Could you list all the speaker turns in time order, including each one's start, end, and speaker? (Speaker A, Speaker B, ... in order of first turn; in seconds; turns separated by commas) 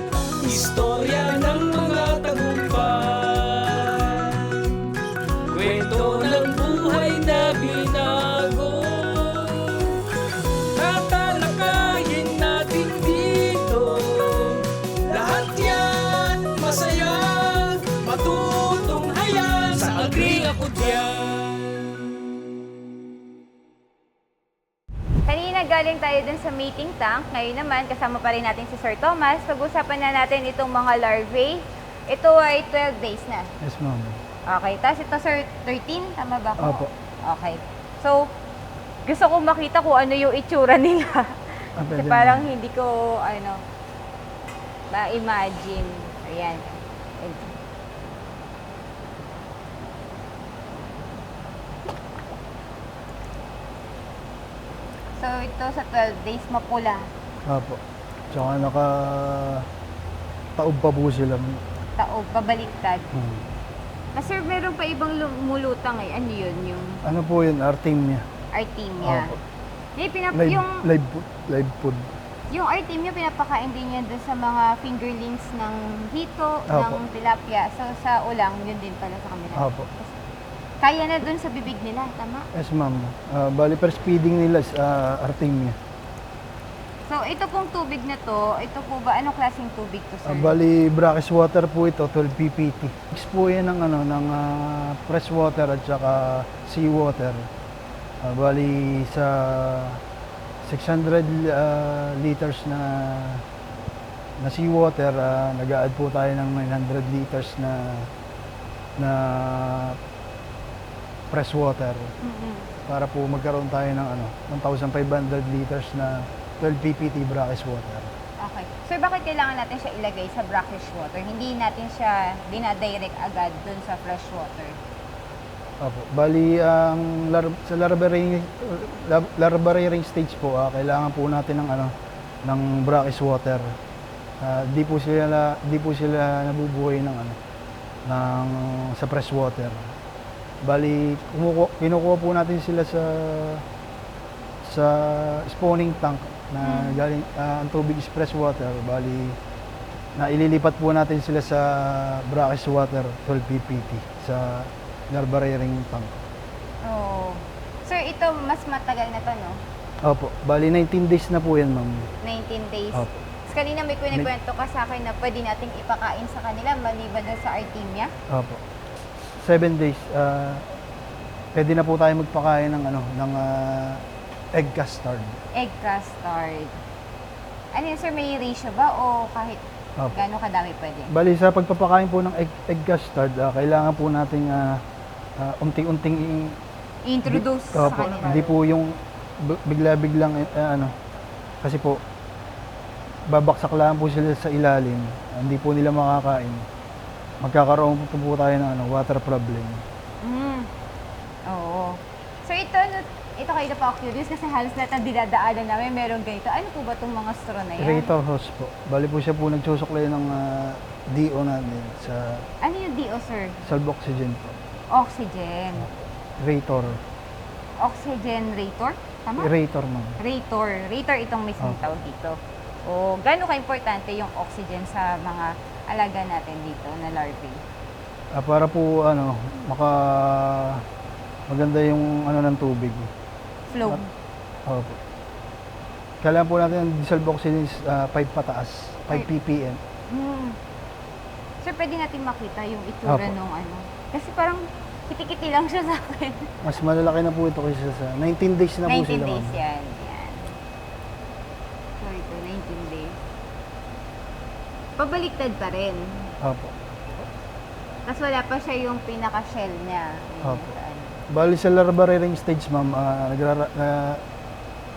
Speaker A: 0.4-4.9, Speaker A: 5.5-22.0, Speaker B: 25.3-33.5, Speaker C: 33.6-34.2, Speaker B: 34.5-38.2, Speaker C: 36.6-36.9, Speaker B: 39.1-41.3, Speaker C: 41.8-42.5, Speaker B: 41.9-43.6, Speaker B: 44.9-47.5, Speaker B: 55.2-57.1, Speaker C: 57.5-57.8, Speaker C: 58.3-59.7, Speaker C: 60.6-61.6, Speaker B: 62.0-63.1, Speaker C: 63.1-63.5, Speaker B: 64.2-67.0, Speaker C: 67.0-68.2, Speaker B: 68.5-69.4, Speaker C: 69.0-69.4, Speaker B: 70.0-70.8, Speaker C: 70.3-72.1, Speaker B: 72.5-80.1, Speaker C: 76.7-77.0, Speaker C: 79.6-79.9, Speaker B: 80.8-82.5, Speaker C: 82.5-85.8, Speaker B: 87.1-90.6, Speaker C: 90.2-97.4, Speaker C: 98.2-100.0, Speaker C: 100.6-103.4, Speaker C: 104.4-108.1, Speaker C: 109.0-110.0, Speaker C: 111.3-112.1, Speaker B: 112.2-112.7, Speaker C: 112.9-118.1, Speaker B: 118.4-124.8, Speaker C: 125.8-131.9, Speaker C: 132.4-133.7, Speaker C: 134.4-137.4, Speaker C: 138.1-139.8, Speaker C: 140.6-143.6, Speaker C: 144.7-149.4, Speaker B: 146.6-147.0, Speaker C: 150.2-156.2, Speaker B: 156.8-159.6, Speaker C: 160.0-162.1, Speaker B: 162.2-168.1, Speaker C: 162.9-163.2, Speaker C: 168.3-168.6, Speaker C: 169.4-170.7, Speaker C: 171.6-174.0, Speaker C: 174.6-175.4, Speaker B: 175.6-176.8, Speaker B: 177.8-179.6, Speaker B: 180.1-181.1, Speaker C: 181.1-184.8, Speaker C: 185.4-186.6, Speaker B: 187.1-188.6, Speaker C: 187.3-190.9, Speaker C: 191.6-192.0, Speaker C: 193.3-196.6, Speaker C: 197.4-199.8, Speaker B: 200.2-200.7, Speaker B: 201.5-208.1, Speaker C: 207.8-212.4, Speaker B: 212.6-213.6, Speaker C: 213.6-214.6, Speaker B: 214.9-215.9, Speaker C: 215.8-217.0, Speaker B: 217.8-219.5, Speaker C: 219.4-220.2, Speaker B: 220.2-227.6, Speaker C: 221.6-221.9, Speaker C: 228.3-230.8, Speaker C: 231.5-233.1, Speaker B: 233.7-234.1, Speaker C: 234.7-235.0, Speaker C: 236.2-239.8, Speaker B: 240.1-240.6, Speaker B: 241.6-246.6, Speaker C: 243.1-243.4, Speaker C: 246.6-249.6, Speaker B: 248.9-250.6, Speaker B: 252.0-253.2, Speaker B: 255.0-256.3, Speaker C: 256.4-257.2, Speaker B: 258.1-261.2, Speaker C: 260.4-260.7, Speaker C: 261.3-264.2